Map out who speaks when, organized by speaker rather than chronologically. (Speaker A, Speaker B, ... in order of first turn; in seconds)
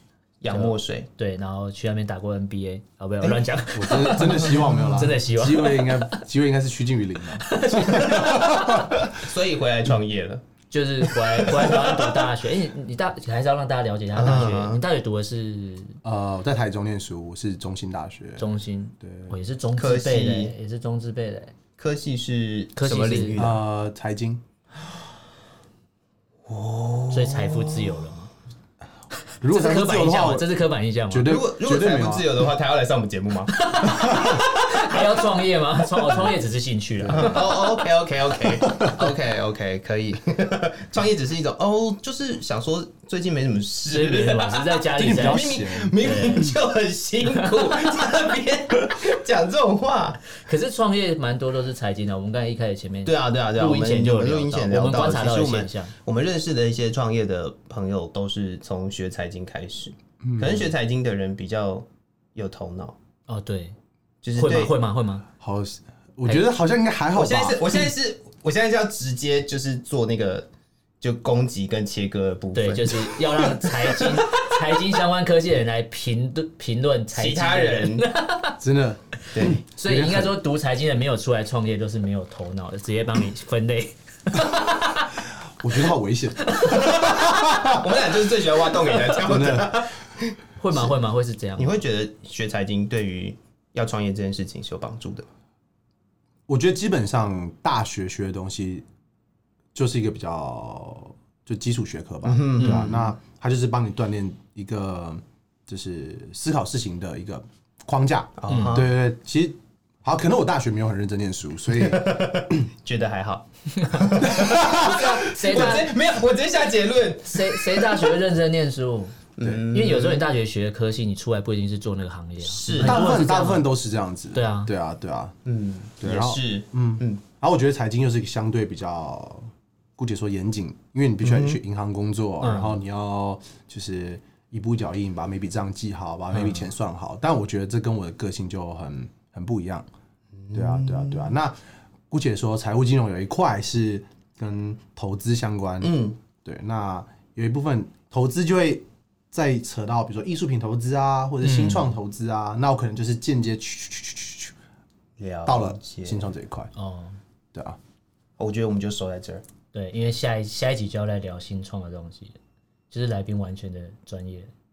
Speaker A: 0.4-1.1, 4.1-4.8, 8.7-10.4, 11.4-12.1, 14.1-14.8, 19.8-20.5, 21.8-23.6, 26.4-28.0, 31.2-35.1, 37.1-50.2, 53.0-63.0, 64.2-64.8, 67.1-70.5, 71.0-74.5, 77.1-78.1, 79.3-79.6, 86.9-90.9, 91.6-95.2, 102.2-103.1, 108.4-108.9, 111.7-118.1, 119.4-120.3, 122.4-123.1, 125.5-127.2, 131.2-131.6, 140.4-141.3, 145.8-146.2, 155.2-156.3, 158.4-159.4
Speaker B: 0.5-6.2, 7.4-8.9, 10.7-16.0, 18.4-21.5, 22.8-23.4, 27.1-28.3, 29.4-31.4, 33.5-37.7, 43.9-46.5, 47.3-47.9, 50.3-55.9, 63.3-63.8, 64.3-65.2, 72.5-78.6, 79.3-85.1, 86.4-87.7, 90.6-91.8, 102.6-102.9, 108.5-108.8, 113.8-115.9, 117.2-123.7, 124.3-124.7, 132.4-132.8, 136.3-136.7, 151.4-151.9, 156.8-157.2, 159.7-162.4, 162.9-164.5
Speaker C: 3.7-8.9, 16.0-18.5, 19.0-19.4, 23.4-24.4, 29.4-30.5, 31.1-32.5, 33.9-34.4, 37.0-37.5, 38.6-39.0, 44.9-45.9, 60.2-60.7, 65.4-67.8, 78.6-80.4, 85.6-87.9, 89.2-89.8, 96.5-98.8, 99.7-112.7, 114.2-115.8, 122.7-125.3, 126.0-139.8, 140.5-141.6, 142.1-154.5, 155.4-156.7, 157.5-157.8